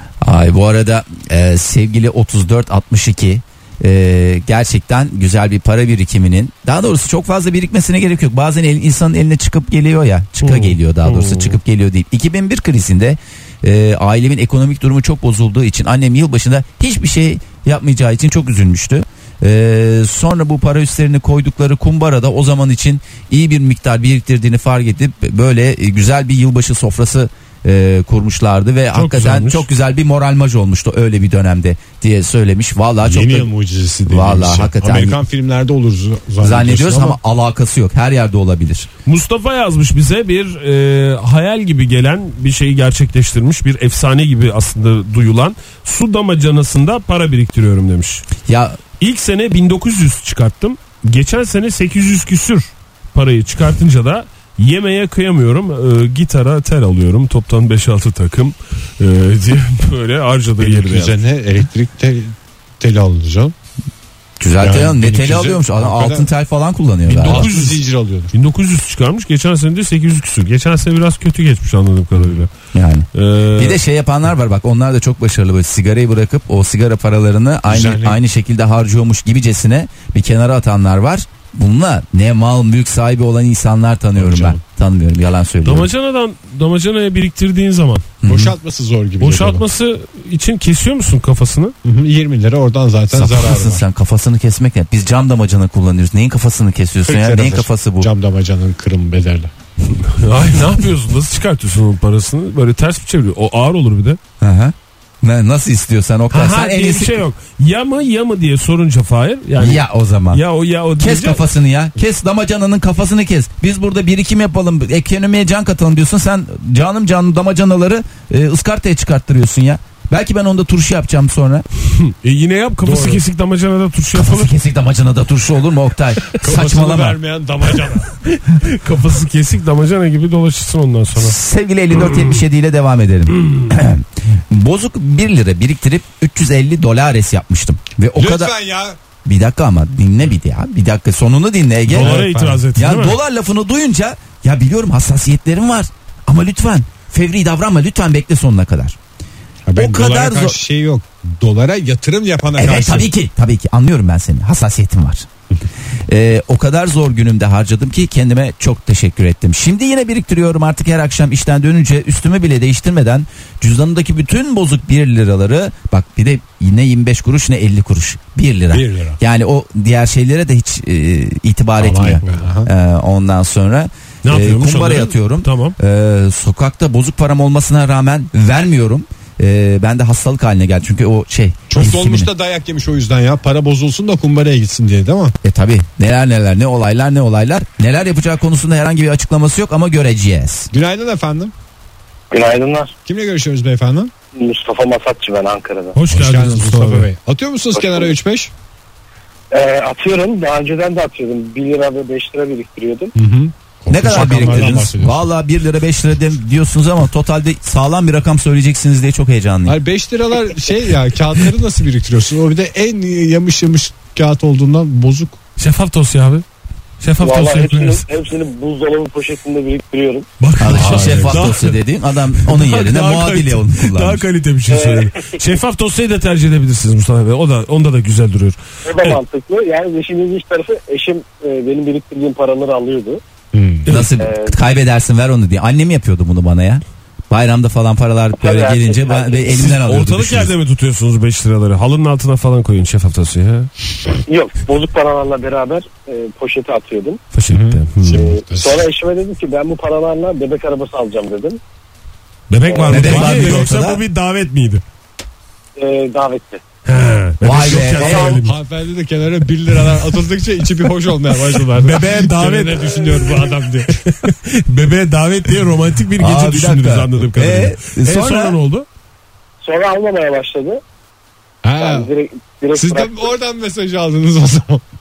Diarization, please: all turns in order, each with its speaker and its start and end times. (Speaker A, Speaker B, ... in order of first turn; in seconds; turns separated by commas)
Speaker A: 0.2-33.5, Speaker B: 10.4-11.6, Speaker B: 28.9-29.6, Speaker C: 33.0-37.2, Speaker A: 34.1-35.2, Speaker A: 36.4-38.9, Speaker B: 39.0-48.3, Speaker A: 48.5-48.8, Speaker B: 49.0-61.2, Speaker C: 60.6-63.5, Speaker A: 64.4-67.5, Speaker C: 64.6-66.3, Speaker C: 67.0-68.3, Speaker B: 67.2-67.8, Speaker B: 68.3-72.5, Speaker C: 72.2-72.4, Speaker A: 72.7-85.9, Speaker B: 73.1-73.8, Speaker C: 77.7-78.2, Speaker C: 84.2-84.6, Speaker B: 85.6-88.1, Speaker A: 88.2-88.5, Speaker C: 88.2-89.6, Speaker B: 89.2-91.7, Speaker C: 91.8-93.8, Speaker A: 93.1-98.1, Speaker C: 97.0-99.5, Speaker B: 100.0-104.2, Speaker A: 104.4-107.2, Speaker B: 106.3-111.5, Speaker A: 109.6-110.4, Speaker A: 111.0-121.7, Speaker B: 121.9-124.5, Speaker C: 122.8-123.2, Speaker A: 124.1-127.2, Speaker C: 126.3-128.1, Speaker B: 128.2-131.4, Speaker A: 131.2-138.5, Speaker B: 132.0-132.4, Speaker C: 138.1-139.0, Speaker A: 139.2-149.0, Speaker B: 141.9-143.2, Speaker C: 141.9-142.7, Speaker C: 149.7-153.1, Speaker A: 149.8-150.6, Speaker A: 152.6-155.3, Speaker A: 156.1-182.3, Speaker C: 168.7-169.2, Speaker C: 171.8-172.7, Speaker B: 174.2-175.8, Speaker C: 181.7-185.3, Speaker A: 185.4-190.7, Speaker C: 190.7-191.5, Speaker D: 192.3-192.9, Speaker C: 193.1-194.1, Speaker D: 194.3-196.0, Speaker B: 195.9-197.1, Speaker C: 196.1-198.5, Speaker D: 197.7-198.1, Speaker D: 199.5-203.1, Speaker C: 203.2-205.3, Speaker A: 203.9-209.8, Speaker B: 204.2-204.8, Speaker C: 209.7-215.4, Speaker B: 215.6-216.4, Speaker B: 217.0-218.1, Speaker D: 217.2-220.2, Speaker B: 220.4-221.8, Speaker A: 220.6-224.2, Speaker C: 220.6-221.6, Speaker B: 222.3-229.2, Speaker D: 224.7-225.5, Speaker D: 228.8-233.2, Speaker C: 233.5-233.9, Speaker B: 233.8-234.1, Speaker A: 233.9-240.5, Speaker D: 234.2-234.6, Speaker D: 238.4-239.6, Speaker B: 239.5-243.7, Speaker D: 244.3-247.2, Speaker B: 247.3-248.2, Speaker C: 247.5-248.8, Speaker D: 248.1-251.6, Speaker B: 252.5-254.8, Speaker D: 252.7-253.2, Speaker C: 252.9-253.7, Speaker A: 252.9-254.0, Speaker D: 255.8-256.6, Speaker B: 256.9-258.5, Speaker A: 257.4-258.4, Speaker D: 258.0-258.4, Speaker C: 258.4-264.0, Speaker B: 261.8-268.9, Speaker A: 266.2-268.6, Speaker D: 269.6-270.8, Speaker C: 271.6-272.1, Speaker D: 271.8-273.3, Speaker C: 272.7-274.8